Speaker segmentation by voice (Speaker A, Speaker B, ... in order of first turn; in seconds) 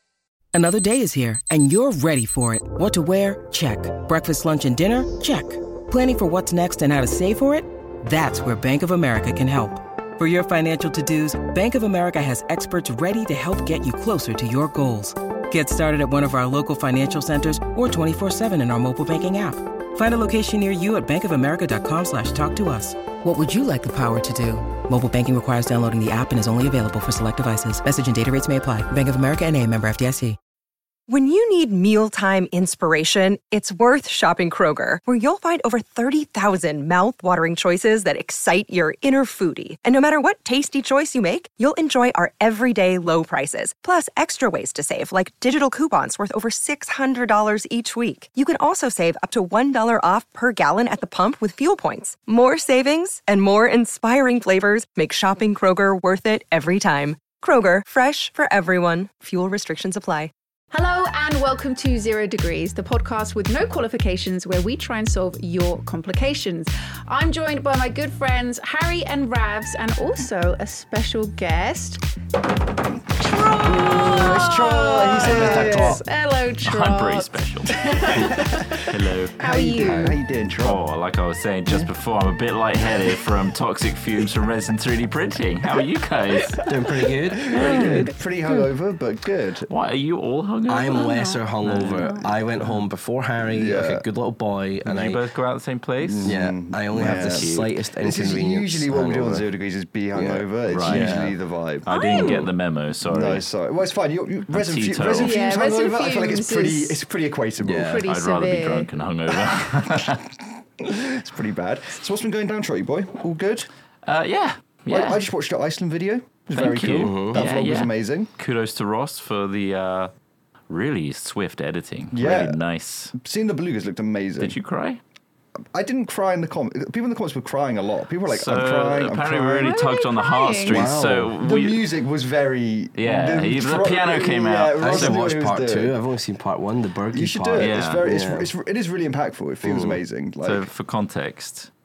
Speaker A: 0.5-30.4
Speaker B: 31.1-60.3
Speaker C: 60.7-72.0, 73.2-80.2, 86.4-86.7, 87.8-88.6, 90.9-91.4, 92.0-92.2, 101.8-102.4, 105.2-107.0, 107.8-108.9, 129.6-130.9
Speaker D: 73.6-76.0, 79.4-80.8, 87.5-89.7, 93.4-94.0, 96.0-97.5, 98.0-102.5, 103.0-108.0, 109.4-110.0, 110.8-113.7, 114.9-118.3, 122.1-122.6, 123.1-124.5, 125.7-129.7, 131.4-136.0, 137.1-140.7
Speaker E: 75.2-76.0, 76.6-77.8, 78.9-79.3, 80.6-86.6, 87.5-88.1, 89.7-91.1, 91.6-92.1, 94.8-96.4, 96.9-97.7, 100.7-101.3, 101.8-103.5, 104.5-105.3, 108.1-110.2, 114.0-115.2, 116.5-120.1, 120.7-123.1, 124.4-125.0, 128.3-131.9, 132.9-135.2, 137.6-138.1, 140.4-141.7
Speaker F: 75.4-75.9, 86.6-88.0, 90.7-95.2, 96.2-99.5, 100.1-101.3, 107.6-108.0, 117.0-117.4, 130.7-131.3, 134.8-138.5, 139.6-140.0